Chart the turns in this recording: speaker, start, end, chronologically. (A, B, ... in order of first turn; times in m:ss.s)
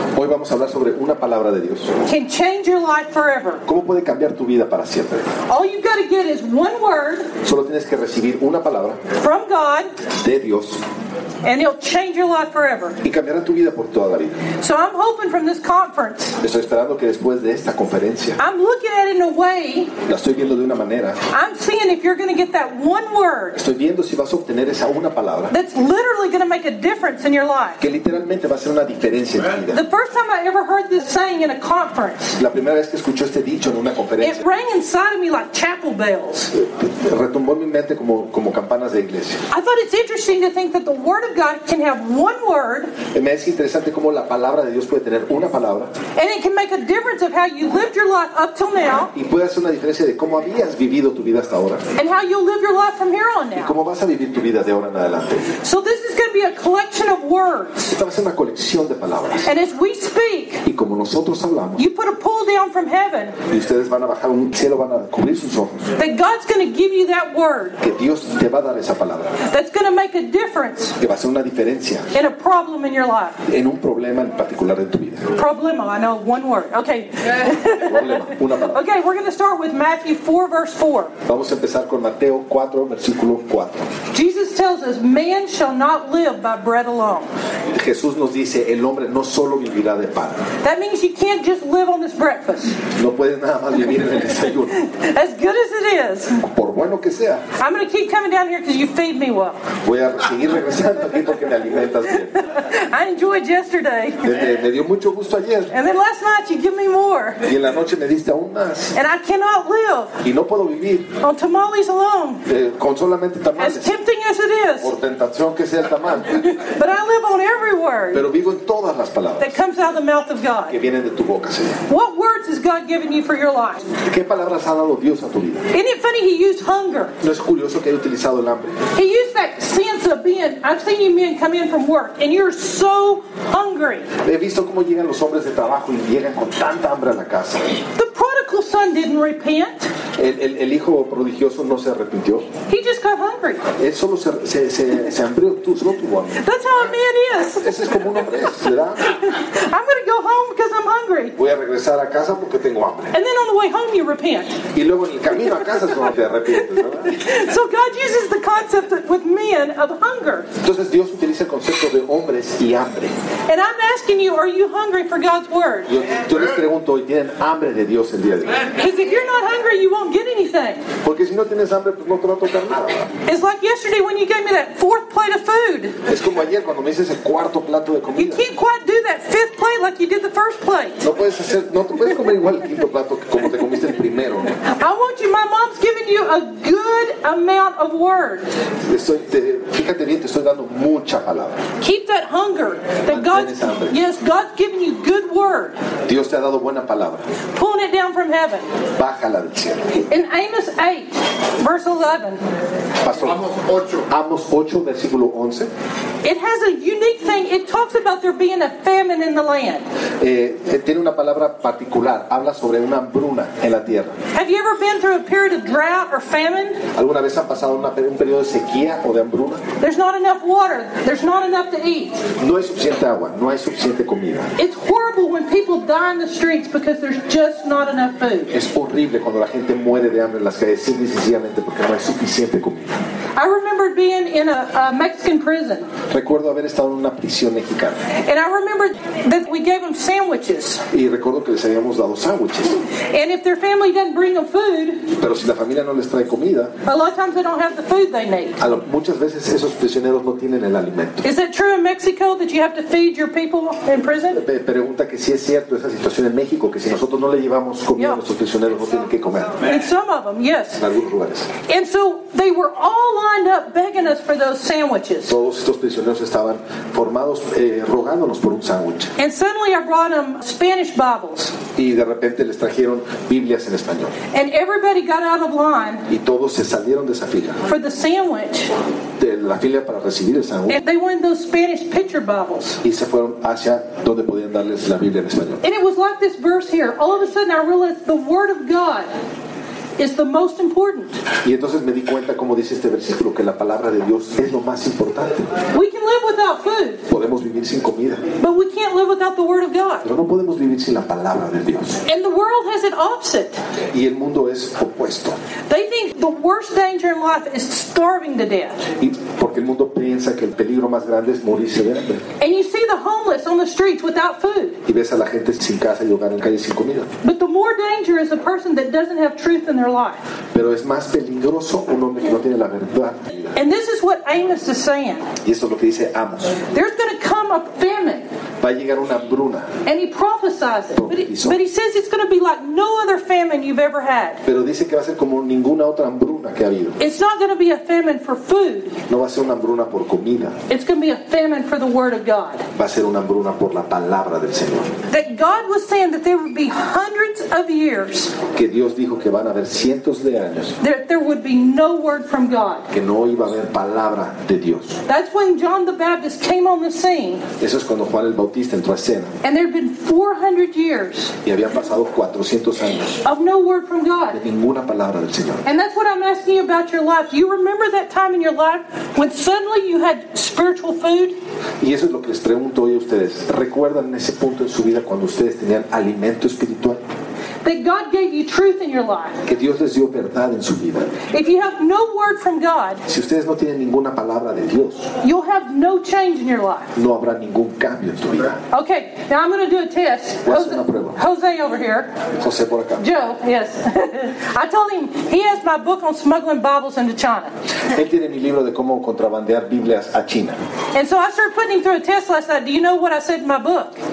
0:00.1-0:01.9 A
0:02.0-0:03.6 B
0:03.6-0:05.3 A
0:05.5-0:07.3 B
0:07.4-0:09.0 A
0:09.2-0:09.9 B
0:10.1-0:10.8 A
0:11.4-0:13.0 B
0:13.0-0:14.4 A
0:14.6-0:16.4 B
0:16.4-0:18.4 A
0:18.4-0:19.9 B
0:20.0-0:21.2 A
0:21.3-0:23.6 B
0:23.5-0:25.5 A
0:25.5-0:27.8 B
0:27.8-0:29.8 A
0:29.7-0:32.4 B
0:32.4-0:34.4 A
0:34.2-0:36.5 B
0:36.5-0:39.4 A
0:39.5-0:42.9 B
0:43.1-0:45.9 A
0:46.2-0:49.1 B
0:49.1-0:51.8 A
0:52.0-0:53.7 B
0:53.5-0:55.5 A
0:55.6-0:57.9 B
0:57.9-0:59.5 A
0:59.4-1:00.6 B
1:00.6-1:01.8 A
1:01.8-1:03.4 B
1:03.5-1:05.9 A
1:06.0-1:07.8 B
1:07.8-1:09.3 A
1:09.5-1:11.0 B
1:11.0-1:12.1 A
1:12.1-1:13.4 B
1:13.4-1:15.3 A
1:15.4-1:21.1 B
1:17.8-1:18.8 A
1:21.3-1:23.9 A
1:24.1-1:27.3 B
1:27.7-1:30.5 A
1:30.6-1:32.8 B
1:32.8-1:34.8 A
1:34.7-1:36.4 B
1:36.4-1:37.4 A
1:37.6-1:39.6 B
1:39.8-1:42.4 A
1:42.3-1:44.3 B
1:44.2-1:45.7 A
1:45.7-1:47.4 B
1:47.4-1:48.9 A
1:48.9-1:50.2 B
1:50.2-1:51.1 A
1:51.2-1:52.4 B
1:52.4-1:53.9 A
1:53.6-1:54.9 B
1:54.8-1:56.5 A
1:56.4-1:58.2 B
1:58.1-1:59.6 A
1:59.4-2:00.8 B
2:00.7-2:01.8 A
2:01.9-2:03.9 B
2:03.9-2:05.7 A
2:05.7-2:07.2 B
2:07.2-2:08.8 A
2:08.9-2:14.1 B
2:14.2-2:17.8 A
2:17.9-2:19.9 B
2:20.2-2:22.5 A
2:22.7-2:23.7 B
2:23.8-2:26.4 A
2:26.4-2:27.7 B
2:27.6-2:29.2 A
2:29.0-2:31.4 B
2:31.4-2:33.1 A
2:33.1-2:34.6 B
2:34.7-2:37.1 A
2:36.9-2:40.5 B
2:40.6-2:43.1 A
2:43.5-2:45.9 B
2:45.9-2:48.7 A
2:48.7-2:50.9 B
2:51.0-2:53.1 A
2:53.2-2:56.0 B
2:56.0-2:58.4 A
2:58.2-3:01.0 B
3:01.0-3:04.5 A
3:04.6-3:08.4 B
3:08.8-3:11.6 A
3:11.8-3:15.8 B
3:13.1-3:14.0 A
3:16.0-3:17.2 A
3:17.5-3:18.7 B
3:19.0-3:19.9 A
3:19.9-3:22.4 B
3:23.0-3:25.7 A
3:26.2-3:29.8 B
3:30.2-3:34.2 A
3:34.3-3:36.8 B
3:36.9-3:39.6 A
3:39.8-3:42.2 B
3:42.4-3:44.5 A
3:44.6-3:48.5 B
3:48.5-3:53.0 A
3:53.4-3:55.9 B
3:56.1-3:58.0 A
3:58.2-4:00.8 B
4:00.9-4:02.8 A
4:03.1-4:05.1 B
4:05.2-4:06.7 A
4:06.8-4:08.6 B
4:08.6-4:11.2 A
4:11.2-4:14.4 B
4:14.3-4:19.6 A
4:19.6-4:20.8 B
4:20.8-4:21.5 A
4:21.6-4:25.4 B
4:25.2-4:29.1 A
4:29.2-4:31.5 B
4:31.8-4:34.1 A
4:34.3-4:36.1 B
4:36.1-4:37.6 A
4:37.6-4:38.7 B
4:39.2-4:40.8 A
4:40.7-4:42.8 B
4:42.8-4:45.6 A
4:45.6-4:49.1 B
4:50.0-4:51.2 B
4:51.4-4:55.5 A
4:55.7-4:57.0 B
4:57.1-4:58.2 A
4:58.4-5:00.0 B
5:00.0-5:02.0 A
5:02.0-5:03.6 B
5:03.9-5:05.4 A
5:05.7-5:08.8 B
5:09.0-5:12.2 A
5:12.4-5:14.8 B
5:14.8-5:17.1 A
5:17.2-5:20.2 B
5:20.5-5:23.5 A
5:23.5-5:25.3 B
5:25.4-5:26.6 A
5:26.7-5:28.3 B
5:28.6-5:29.7 A
5:29.8-5:34.4 B
5:30.9-5:31.6 A
5:34.4-5:37.0 A
5:37.0-5:39.0 B
5:39.1-5:40.6 A
5:40.7-5:42.6 B
5:42.7-5:44.9 A
5:45.1-5:48.4 B
5:48.5-5:50.8 A
5:50.8-5:52.9 B
5:52.9-5:55.0 A
5:55.1-5:57.4 B
5:57.6-5:59.3 A
5:59.4-6:01.3 B
6:01.4-6:03.2 A
6:03.2-6:04.4 B
6:04.3-6:05.6 A
6:05.6-6:11.4 B
6:11.8-6:17.0 A
6:17.6-6:19.4 B
6:19.4-6:21.2 A
6:21.3-6:23.0 B
6:23.1-6:25.1 A
6:25.2-6:26.9 B
6:26.9-6:28.6 A
6:28.7-6:32.1 B
6:30.4-6:31.2 A
6:32.4-6:33.0 A
6:33.0-6:37.5 B
6:37.9-6:40.6 A
6:40.9-6:44.0 B